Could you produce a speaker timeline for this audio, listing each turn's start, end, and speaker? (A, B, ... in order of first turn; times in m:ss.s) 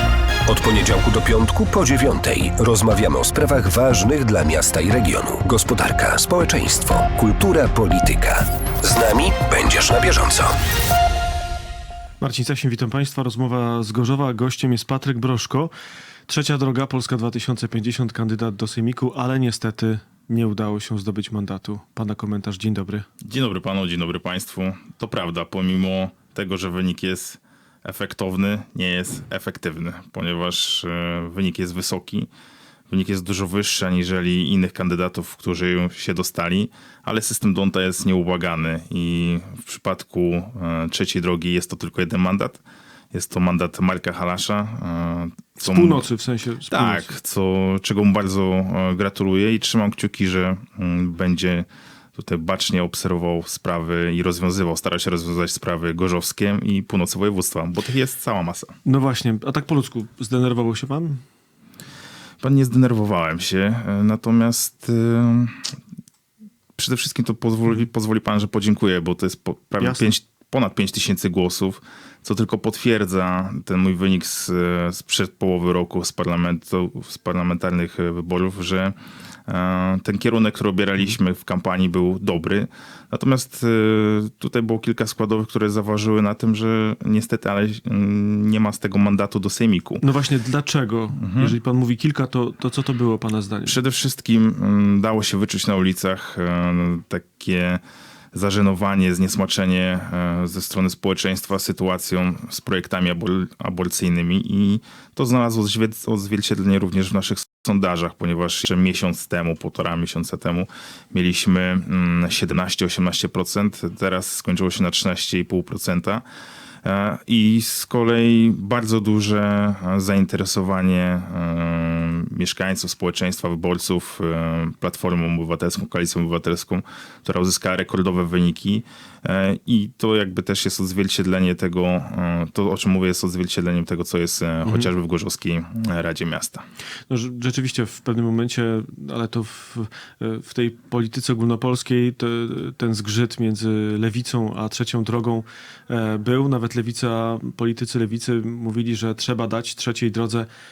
0:00.4-0:10.5 A
0:12.2-0:15.7 B
0:16.3-0:23.1 B
0:23.2-0:32.3 C
0:32.9-0:42.6 C
0:43.1-0:46.0 C
0:45.6-0:47.1 B
0:46.7-0:58.7 C
0:58.8-1:01.2 B
1:02.4-1:05.7 C
1:06.8-1:18.9 C
1:09.8-1:10.1 B
1:19.5-1:30.0 C
1:30.0-1:33.8 B
1:31.2-1:31.5 C
1:33.6-1:37.8 C
1:38.3-1:56.2 C
1:56.8-2:16.6 C
2:17.1-2:30.5 B